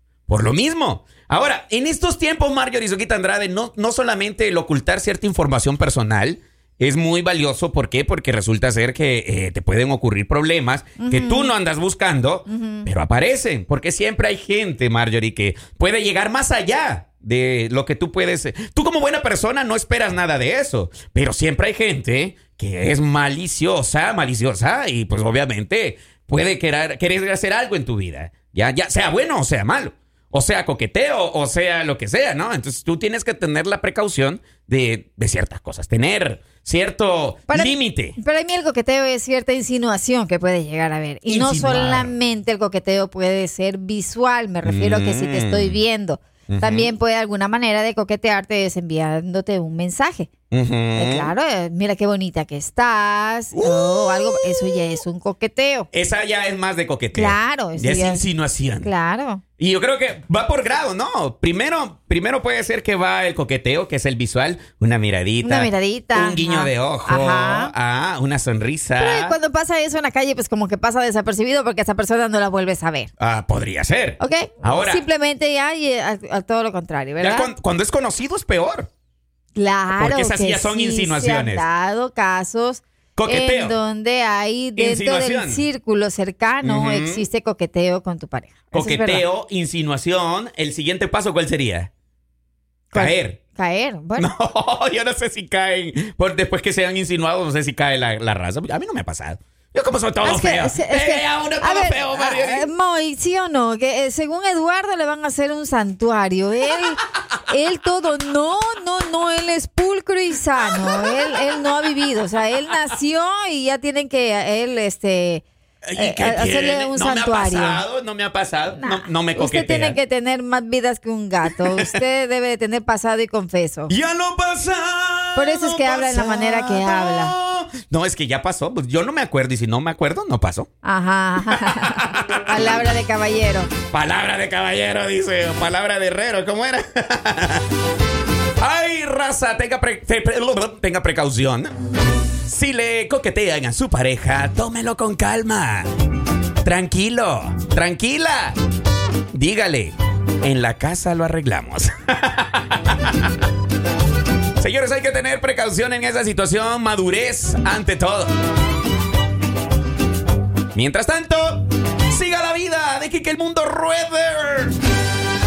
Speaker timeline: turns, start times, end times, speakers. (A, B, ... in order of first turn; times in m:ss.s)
0:00.3-0:38.2 A
0:11.0-0:11.5 B
0:12.5-0:12.9 B
0:37.5-0:50.3 B
0:41.3-0:42.1 A
0:44.6-0:45.8 A
0:46.5-0:46.9 A
0:50.5-0:51.3 A
0:50.9-0:55.9 B
0:53.5-0:55.0 A
0:55.9-0:58.9 A
0:57.1-0:58.3 B
0:58.8-0:59.4 B
0:59.6-1:09.4 A
1:05.4-1:07.7 B
1:09.0-1:13.1 B
1:13.2-1:15.0 A
1:14.2-1:17.5 B
1:17.2-1:18.9 A
1:19.5-1:29.2 B
1:19.9-1:21.6 A
1:23.2-1:23.8 A
1:24.8-1:25.6 A
1:26.6-1:27.2 A
1:28.7-1:31.9 A
1:32.9-1:34.3 B
1:32.9-1:33.4 A
1:34.2-1:42.7 A
1:40.2-1:57.8 B
1:50.6-1:51.5 A
1:55.8-2:00.0 A
1:58.8-2:03.9 B
2:01.4-2:02.0 A
2:03.9-2:10.7 A
2:05.4-2:07.3 B
2:10.8-2:13.7 B
2:11.4-2:12.9 A
2:13.9-2:17.7 A
2:18.6-2:21.7 A
2:22.4-2:25.9 A
2:26.6-2:28.6 A
2:29.3-2:33.3 A
2:34.6-2:38.3 A
2:40.7-2:44.8 A